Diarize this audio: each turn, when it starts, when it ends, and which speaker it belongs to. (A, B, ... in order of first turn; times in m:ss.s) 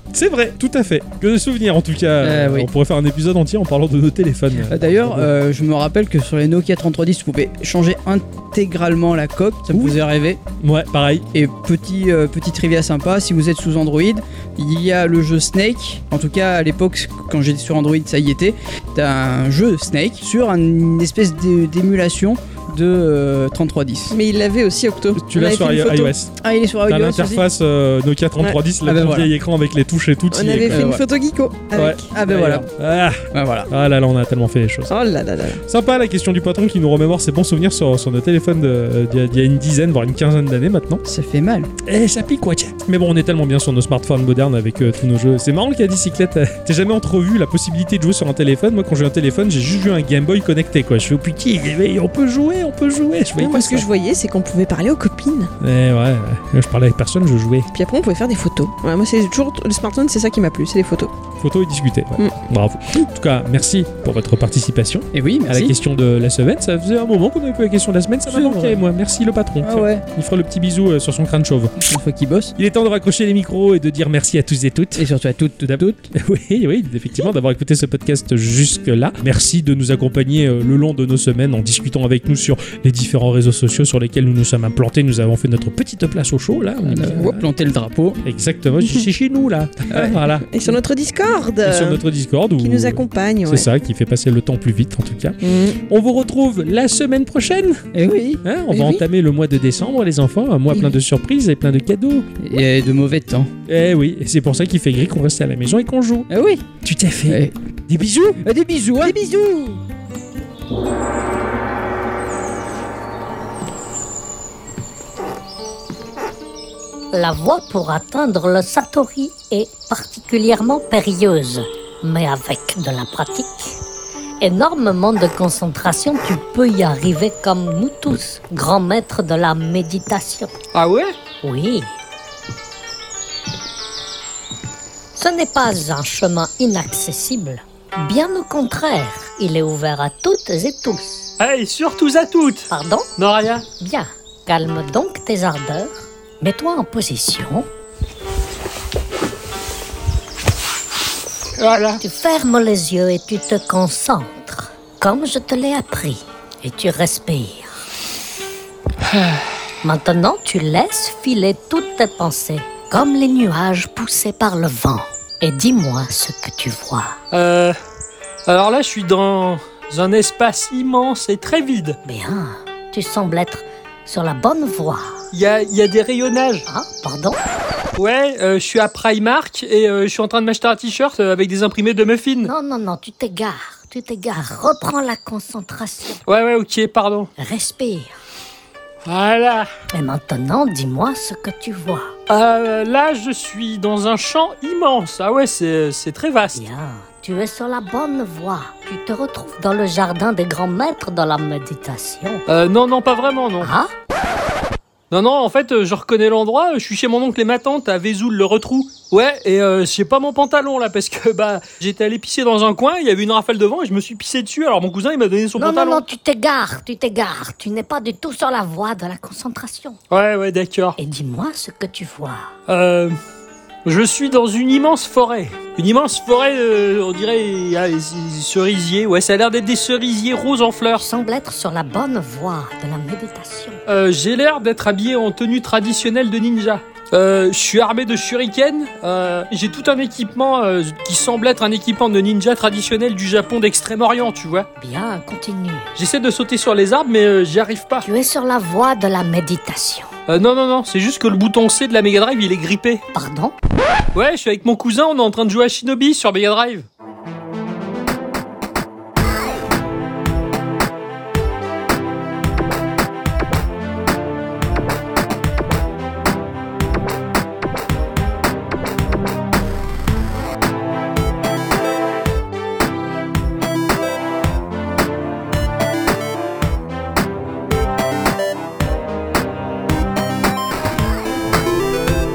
0:00.1-0:05.3 A
0:02.2-0:02.7 B
0:04.6-0:10.4 B
0:09.7-0:10.0 A
0:10.6-0:11.3 A
0:11.3-0:24.2 B
0:24.1-0:26.1 C
0:25.2-0:30.8 A
0:26.4-0:27.5 B
0:28.8-0:29.3 B
0:30.3-0:32.0 C
0:30.6-0:31.0 B
0:31.7-0:34.9 A
0:32.1-0:32.7 B
0:33.3-0:33.7 B
0:34.9-0:35.6 C
0:35.7-0:41.0 A
0:41.0-0:41.7 B
0:41.8-0:53.8 A
0:53.4-0:55.5 C
0:55.6-0:57.7 A
0:57.7-1:01.1 C
1:01.4-1:11.7 A
1:05.1-1:05.7 B
1:08.3-1:08.8 B
1:09.6-1:10.0 B
1:11.8-1:12.5 B
1:12.6-1:15.1 A
1:15.0-1:16.0 B
1:15.6-1:27.3 A
1:26.8-1:28.2 B
1:28.2-1:30.5 A
1:29.9-1:30.2 B
1:30.5-1:32.0 C
1:31.6-1:37.8 A
1:32.6-1:33.7 C
1:35.4-1:35.8 C
1:37.9-1:38.4 B
1:38.4-1:42.3 A
1:38.7-1:39.0 C
1:42.4-1:43.5 B
1:43.6-1:46.3 A
1:46.3-1:46.6 B
1:46.8-1:48.4 A
1:47.3-1:47.5 B
1:48.4-1:49.7 B
1:57.1-2:03.8 D
2:04.4-2:10.5 D
2:10.7-2:11.1 E
2:11.4-2:11.9 D
2:15.2-2:21.3 D
2:21.4-2:23.6 E
2:22.7-2:23.1 D
2:23.8-2:27.6 D
2:31.6-2:32.0 E
2:32.0-2:37.7 D
2:39.8-2:47.2 D
2:47.3-2:47.8 E
2:48.4-2:52.0 E
2:52.0-2:55.2 D
2:55.3-2:56.6 E
2:56.7-2:57.4 D
2:58.0-3:02.5 E
3:02.4-3:06.2 D
3:06.2-3:07.3 E
3:07.4-3:08.1 D
3:09.0-3:09.7 E
3:09.9-3:12.1 D
3:12.3-3:16.6 E
3:16.5-3:22.4 D
3:22.5-3:23.7 E
3:23.6-3:23.9 D
3:25.1-3:36.0 E
3:35.6-3:40.0 D
3:40.1-3:41.0 E
3:41.0-3:42.5 D
3:42.7-3:43.1 E
3:43.8-3:51.0 E
3:50.9-3:53.8 D
3:53.9-4:04.7 E
4:04.8-4:05.9 D
4:06.0-4:08.0 E
4:08.0-4:10.1 D
4:10.3-4:13.0 E
4:13.1-4:13.5 D
4:14.1-4:16.9 E